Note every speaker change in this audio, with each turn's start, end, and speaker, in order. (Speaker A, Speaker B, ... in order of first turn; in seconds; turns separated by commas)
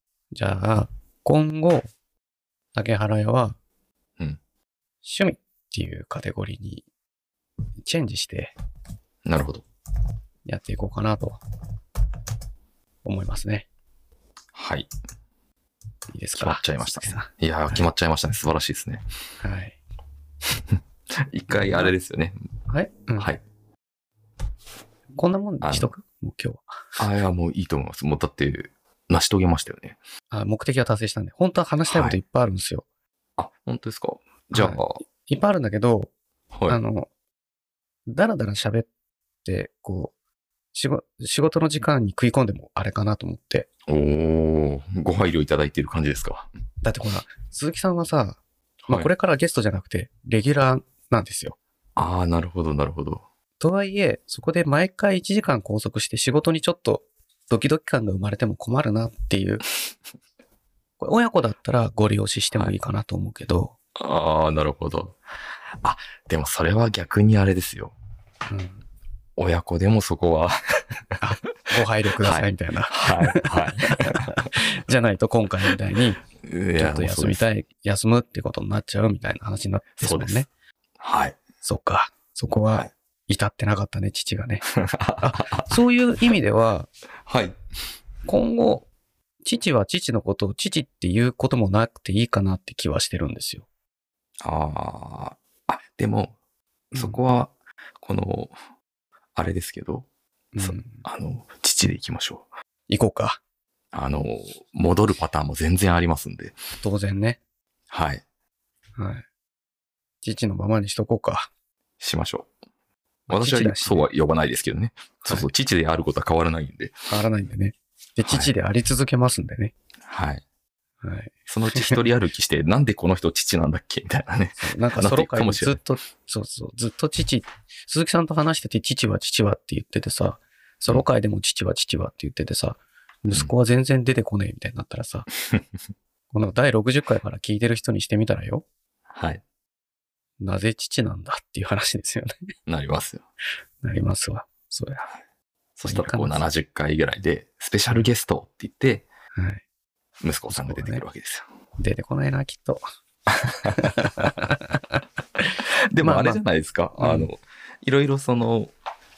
Speaker A: 0.3-1.9, Speaker A: 2.7-3.6, Speaker A: 5.0-6.8, Speaker A: 7.8-8.5, Speaker B: 9.2-9.6, Speaker A: 10.4-11.4, Speaker A: 13.0-13.7, Speaker B: 14.5-14.9, Speaker A: 16.1-17.8, Speaker B: 16.4-19.0, Speaker A: 19.4-19.8, Speaker B: 20.7-22.4, Speaker A: 21.5-21.9, Speaker A: 22.7-23.4, Speaker A: 25.1-27.0, Speaker B: 25.6-25.9, Speaker B: 27.0-30.0, Speaker A: 30.3-32.8, Speaker B: 31.9-32.2, Speaker B: 33.4-35.0, Speaker A: 34.5-36.1, Speaker B: 36.5-36.8, Speaker A: 36.7-37.1, Speaker A: 38.1-38.9, Speaker A: 39.4-40.1, Speaker A: 40.7-43.7, Speaker B: 43.9-46.5, Speaker A: 46.8-51.6, Speaker B: 52.0-53.2, Speaker A: 53.6-59.6, Speaker A: 61.0-63.7, Speaker B: 64.0-65.2, Speaker B: 65.8-67.9, Speaker A: 68.5-68.8, Speaker B: 69.4-71.2, Speaker A: 71.2-76.2, Speaker B: 72.2-74.5, Speaker B: 76.4-77.4, Speaker A: 76.8-80.5, Speaker B: 80.0-80.5, Speaker B: 81.0-81.4, Speaker A: 81.6-84.7, Speaker B: 84.7-85.7, Speaker A: 85.2-86.9, Speaker B: 87.2-87.6, Speaker A: 88.2-88.9, Speaker A: 89.4-93.7, Speaker B: 94.4-96.3, Speaker B: 96.9-98.5, Speaker B: 99.3-100.1, Speaker A: 100.5-101.0, Speaker B: 100.6-102.5, Speaker A: 102.9-103.4, Speaker B: 103.9-106.5, Speaker A: 106.8-107.4, Speaker B: 107.9-108.2, Speaker A: 109.0-109.2, Speaker A: 110.2-111.5, Speaker B: 112.0-112.5, Speaker A: 113.3-114.0, Speaker B: 113.3-116.9, Speaker A: 115.2-115.5, Speaker A: 117.1-119.7, Speaker B: 118.2-118.5, Speaker B: 120.0-120.4, Speaker A: 121.0-122.0, Speaker B: 121.5-125.8, Speaker A: 124.6-135.3, Speaker A: 136.3-138.6, Speaker B: 139.1-139.4, Speaker A: 140.4-142.5, Speaker B: 142.7-143.2, Speaker A: 143.8-145.1, Speaker B: 145.8-149.1, Speaker A: 145.8-146.4, Speaker A: 149.4-149.6, Speaker B: 150.2-151.4, Speaker A: 150.5-151.0, Speaker A: 151.8-152.8, Speaker A: 153.7-156.4, Speaker B: 155.9-158.7, Speaker A: 157.0-157.3